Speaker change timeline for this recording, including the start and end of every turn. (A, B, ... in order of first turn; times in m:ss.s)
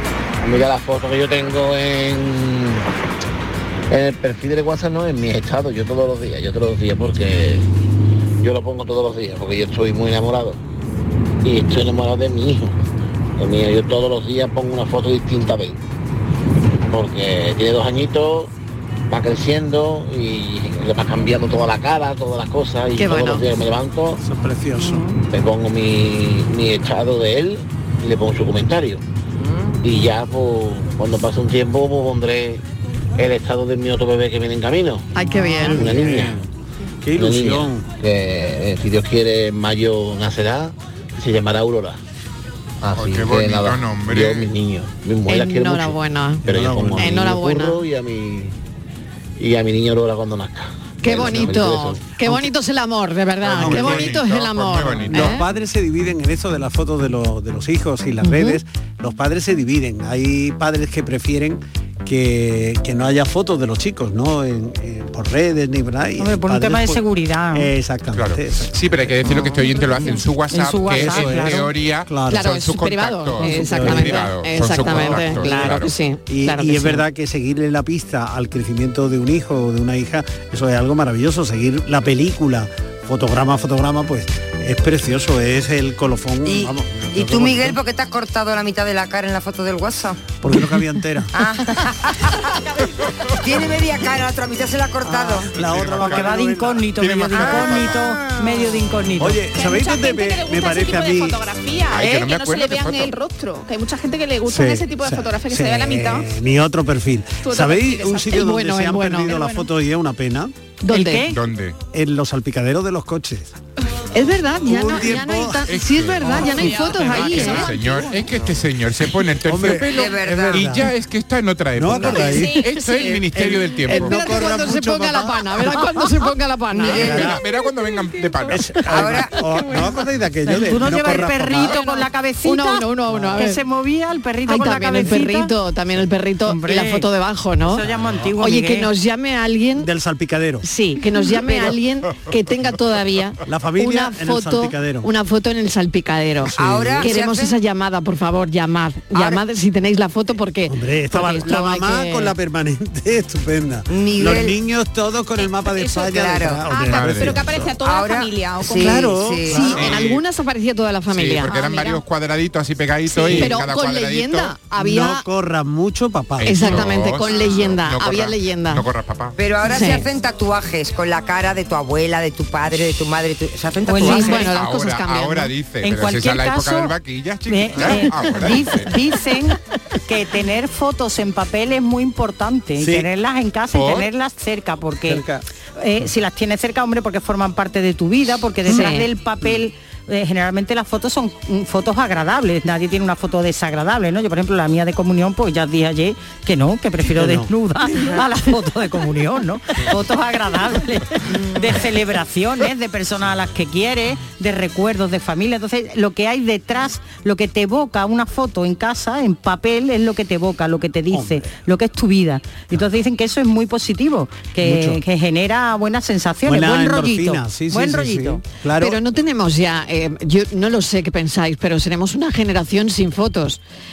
0:00.4-0:02.8 A
0:03.9-0:07.6 A
0:08.4-0:10.6 A
0:11.4-0:12.7 A
0:13.4-0:15.8 A
0:16.9-0:18.5 A
0:19.1-0:24.2 A
0:22.9-0:23.4 B
0:24.2-0:25.1 C
0:25.3-0:29.0 A
0:29.8-0:32.6 A
0:33.2-0:35.1 A
0:35.1-0:36.0 B
0:35.2-0:36.5 C
0:35.6-0:36.4 A
0:37.0-0:37.9 C
0:37.2-0:42.0 A
0:42.8-0:48.5 A
0:42.9-0:44.5 D
0:45.3-0:46.4 B
0:46.4-0:47.2 C
0:47.0-0:47.8 B
0:49.4-0:52.0 A
0:51.0-0:55.4 B
0:51.1-0:52.5 C
0:53.4-0:55.4 D
0:53.5-0:54.2 C
0:55.1-1:10.1 C
0:58.2-0:58.6 B
1:06.2-1:07.7 E
1:08.1-1:15.9 D
1:10.5-1:11.7 E
1:10.9-1:12.5 C
1:12.3-1:17.0 B
1:13.4-1:27.8 C
1:26.4-1:30.3 F
1:30.4-1:31.3 C
1:31.3-1:32.5 F
1:33.4-1:35.5 F
1:35.1-1:37.8 C
1:35.6-1:38.3 D
1:35.9-1:39.4 E
1:38.2-1:38.6 G
1:39.2-1:41.4 C
1:39.5-1:46.3 G
1:41.9-1:43.1 D
1:44.5-1:50.5 C
1:47.4-1:48.5 G
1:48.3-1:49.4 B
1:49.1-1:49.7 G
1:50.8-1:51.3 B
1:50.8-1:51.4 E
1:51.2-1:51.8 D
1:51.9-1:53.5 C
1:54.1-1:57.7 B
1:54.6-1:55.7 C
1:55.6-2:04.2 D
1:56.4-1:56.8 C
1:56.8-1:57.4 E
1:59.4-2:00.9 C
1:59.9-2:00.8 F
2:01.7-2:06.1 C
2:02.0-2:03.2 G
2:03.8-2:07.2 B
2:06.7-2:07.4 C
2:06.9-2:08.9 D
2:06.9-2:07.3 F
2:07.7-2:08.5 G
2:08.5-2:11.8 C
2:08.9-2:09.4 F
2:09.4-2:10.0 G
2:10.4-2:15.5 E
2:11.7-2:12.1 G
2:12.4-2:13.6 B
2:13.1-2:13.4 C
2:14.4-2:17.8 B
2:16.5-2:17.1 E
2:17.7-2:18.9 E
2:17.8-2:18.3 C
2:18.4-2:19.9 B
2:19.8-2:20.6 C
2:20.6-2:32.3 B
2:23.5-2:25.1 C
2:26.4-2:27.1 C
2:26.6-2:27.6 F
2:29.1-2:29.4 F
2:30.7-2:37.7 C
2:33.9-2:34.6 F
2:35.3-2:39.2 G
2:36.1-2:36.6 F
2:36.8-2:37.4 D
2:37.8-2:39.9 F
2:38.7-2:39.9 C
2:39.5-2:41.5 B
2:39.6-2:40.2 D
2:41.1-2:44.6 D
2:41.5-2:42.0 G
2:43.1-2:45.2 B
2:43.3-2:43.6 C
2:44.8-2:46.9 C
2:46.4-2:49.4 D
2:46.4-2:48.8 B
2:47.2-2:47.6 G
2:49.4-2:54.5 F
2:49.6-2:50.0 B
2:53.8-2:54.5 E
2:54.0-2:55.5 B
2:54.0-2:58.9 D
2:55.8-2:56.9 E
2:57.5-3:05.2 E
3:02.8-3:03.1 C
3:03.7-3:04.1 D
3:05.0-3:05.4 C
3:05.8-3:38.4 E
3:08.7-3:09.1 B
3:17.0-3:17.5 C
3:31.1-3:31.5 C
3:34.6-3:35.0 C
3:36.4-3:39.0 C
3:38.8-3:43.6 B